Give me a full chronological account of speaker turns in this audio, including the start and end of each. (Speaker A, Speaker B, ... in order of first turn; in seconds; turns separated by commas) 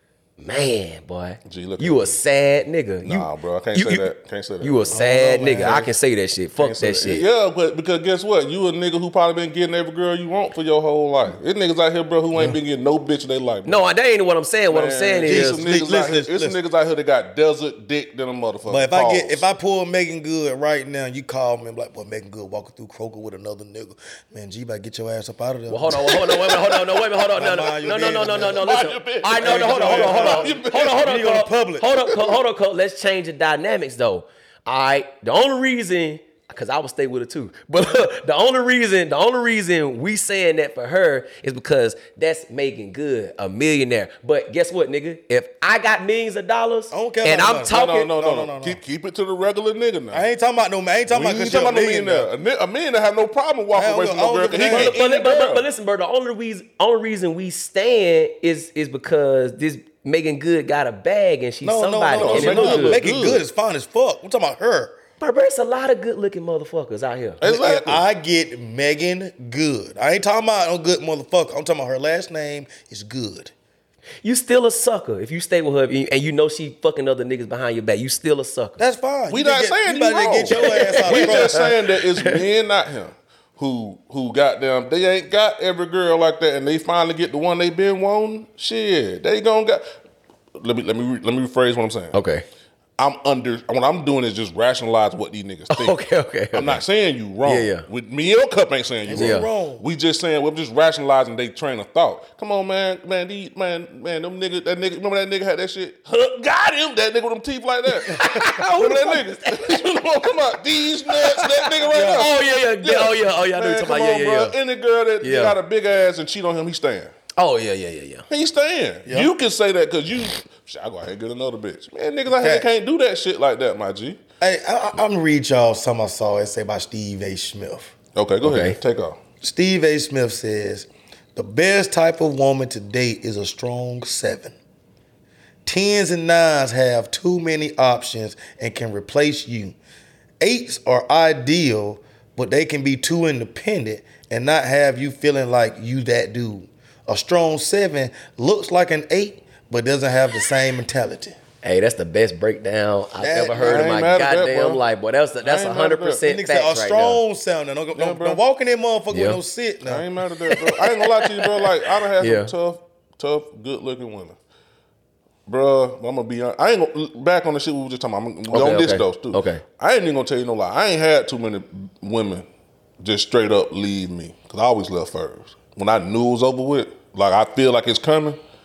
Speaker A: 0.4-4.1, Speaker B: 1.4-2.2, Speaker B: 3.0-5.0, Speaker A: 4.6-7.2, Speaker C: 4.9-5.8, Speaker B: 5.5-5.9, Speaker B: 6.6-13.8, Speaker A: 13.7-15.6, Speaker B: 14.7-19.4, Speaker C: 15.2-16.6, Speaker C: 18.7-26.2, Speaker A: 25.7-48.1, Speaker B: 26.0-27.3, Speaker C: 27.4-28.6, Speaker B: 28.4-31.1, Speaker C: 29.3-31.9, Speaker B: 32.1-32.4, Speaker C: 46.9-48.8, Speaker B: 47.7-50.2, Speaker C: 50.1-52.3, Speaker B: 51.1-55.7, Speaker C: 53.7-55.0, Speaker A: 54.6-63.0, Speaker C: 61.6-65.0, Speaker B: 62.1-63.4, Speaker A: 65.2-67.4, Speaker B: 67.4-68.0, Speaker C: 67.4-73.5, Speaker A: 74.2-78.8, Speaker C: 78.8-81.7, Speaker B: 79.3-89.9, Speaker A: 80.5-82.4, Speaker B: 90.6-92.2, Speaker A: 92.1-92.4, Speaker B: 93.0-96.0, Speaker A: 95.7-96.8, Speaker B: 96.5-117.1, Speaker A: 97.4-97.8, Speaker C: 99.1-99.8, Speaker A: 99.2-99.5, Speaker A: 108.0-109.8, Speaker A: 111.1-114.5, Speaker C: 111.9-112.3, Speaker A: 115.2-115.5, Speaker A: 117.4-118.2, Speaker B: 118.3-124.2, Speaker C: 119.0-119.3, Speaker C: 122.3-122.7, Speaker C: 124.4-127.9, Speaker B: 128.1-129.2, Speaker A: 128.4-128.8, Speaker C: 129.4-134.5, Speaker C: 135.7-139.7, Speaker C: 140.4-151.4, Speaker A: 151.6-157.2, Speaker C: 153.2-153.9, Speaker B: 153.6-154.8, Speaker B: 155.4-156.2, Speaker C: 156.2-160.1, Speaker B: 157.9-158.4, Speaker A: 159.1-159.4, Speaker B: 159.8-164.4, Speaker A: 160.5-162.5, Speaker B: 165.5-172.5, Speaker A: 168.5-169.6, Speaker B: 173.0-178.4